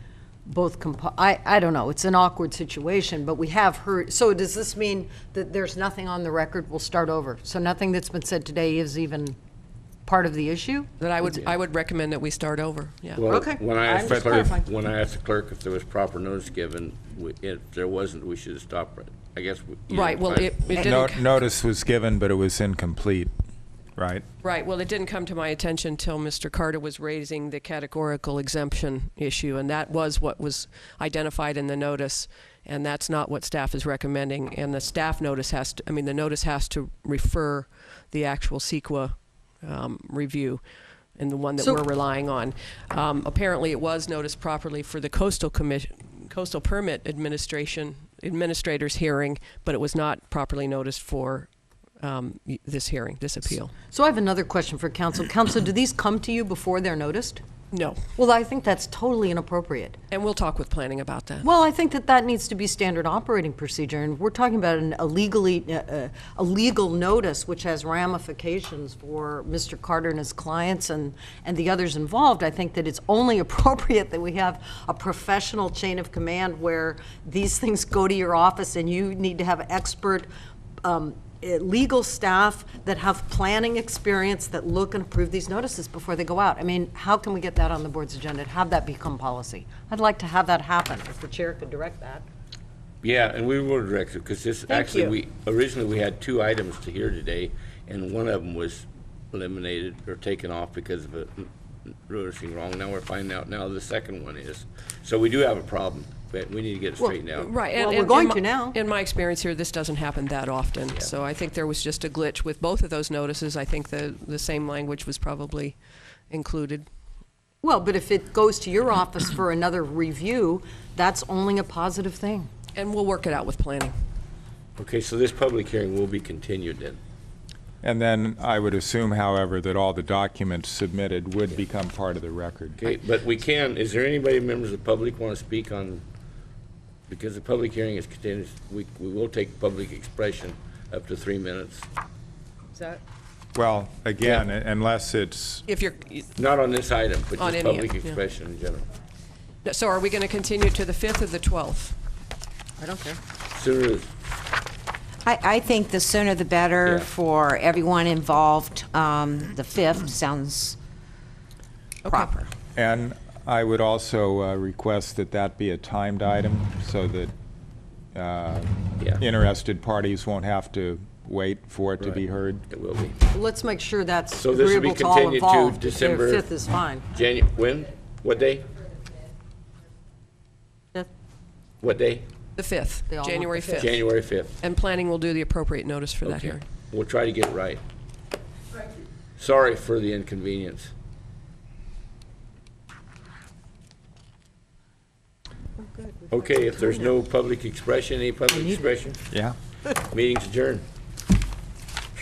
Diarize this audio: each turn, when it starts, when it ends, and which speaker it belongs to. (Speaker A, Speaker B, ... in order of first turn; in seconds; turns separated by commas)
Speaker A: 0.5-9.3, Speaker A: 10.1-10.9, Speaker B: 11.0-13.2, Speaker C: 11.2-11.5, Speaker C: 13.2-20.6, Speaker A: 13.3-14.7, Speaker B: 19.9-21.3, Speaker D: 20.7-23.3, Speaker D: 24.0-24.2, Speaker B: 24.4-40.6, Speaker B: 41.1-51.5, Speaker B: 52.0-53.7, Speaker A: 53.9-57.4, Speaker B: 57.7-58.0, Speaker A: 58.1-60.0, Speaker B: 60.1-61.5, Speaker A: 61.4-80.3, Speaker A: 80.8-92.2, Speaker C: 93.0-107.5, Speaker A: 94.7-95.2, Speaker B: 107.3-115.8, Speaker A: 107.7-108.8, Speaker B: 116.3-116.8, Speaker A: 117.6-122.5, Speaker B: 122.8-123.9, Speaker C: 124.8-127.0, Speaker D: 127.8-132.8, Speaker C: 132.8-136.0, Speaker C: 137.1-141.8, Speaker A: 142.7-143.0, Speaker D: 143.5-145.6, Speaker B: 145.7-146.2, Speaker C: 146.3-148.9, Speaker B: 147.4-148.2, Speaker B: 149.6-151.9, Speaker A: 152.8-153.2, Speaker C: 153.5-154.1, Speaker E: 155.2-160.8, Speaker C: 156.8-157.1, Speaker B: 162.0-162.5, Speaker E: 162.1-162.4, Speaker D: 162.7-167.3, Speaker D: 168.1-172.7, Speaker C: 172.7-173.2, Speaker A: 173.3-177.1, Speaker C: 174.4-176.5, Speaker C: 177.1-178.8, Speaker C: 181.8-182.2, Speaker B: 182.6-183.9, Speaker A: 183.1-183.9, Speaker C: 183.8-184.6, Speaker B: 184.6-186.6, Speaker C: 186.2-187.8, Speaker C: 189.4-190.9, Speaker A: 195.8-197.1, Speaker C: 196.3-199.3, Speaker A: 198.5-199.0, Speaker D: 199.3-199.6, Speaker C: 200.1-200.8